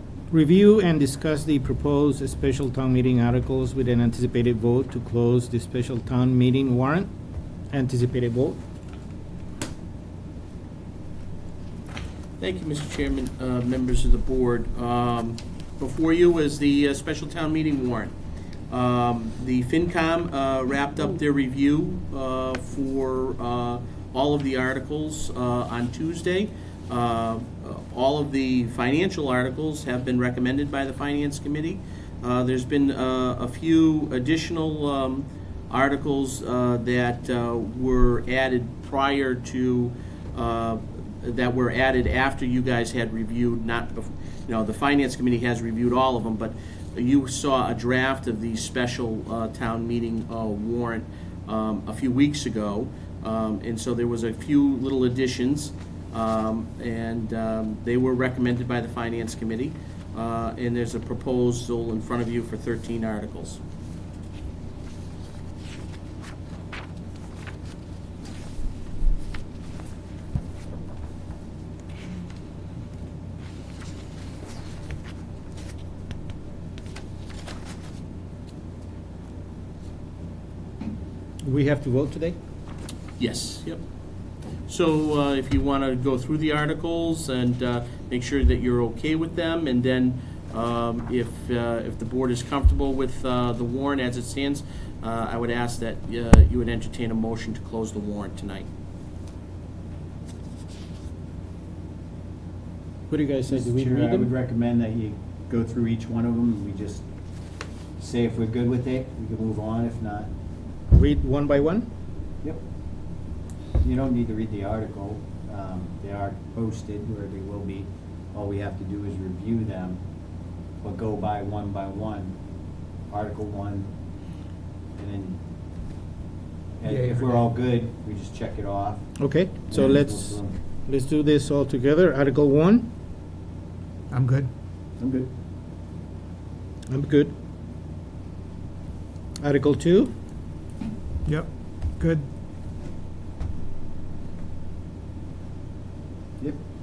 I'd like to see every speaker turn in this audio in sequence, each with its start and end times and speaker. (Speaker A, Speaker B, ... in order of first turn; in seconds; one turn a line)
Speaker A: 0.3-7.1
Speaker A: 7.7-8.6
Speaker B: 12.4-18.1
Speaker B: 18.7-63.6
Speaker A: 81.4-82.4
Speaker B: 83.2-83.8
Speaker B: 84.7-98.7
Speaker A: 103.1-104.3
Speaker C: 103.5-107.1
Speaker C: 108.0-110.3
Speaker A: 110.9-111.9
Speaker C: 113.8-120.0
Speaker C: 120.8-122.4
Speaker C: 123.1-123.9
Speaker C: 125.0-125.4
Speaker C: 126.8-129.1
Speaker D: 126.9-127.5
Speaker A: 129.2-132.9
Speaker C: 129.7-130.6
Speaker D: 134.1-134.5
Speaker C: 135.0-135.3
Speaker A: 136.9-137.3
Speaker A: 139.4-140.1
Speaker D: 141.3-142.3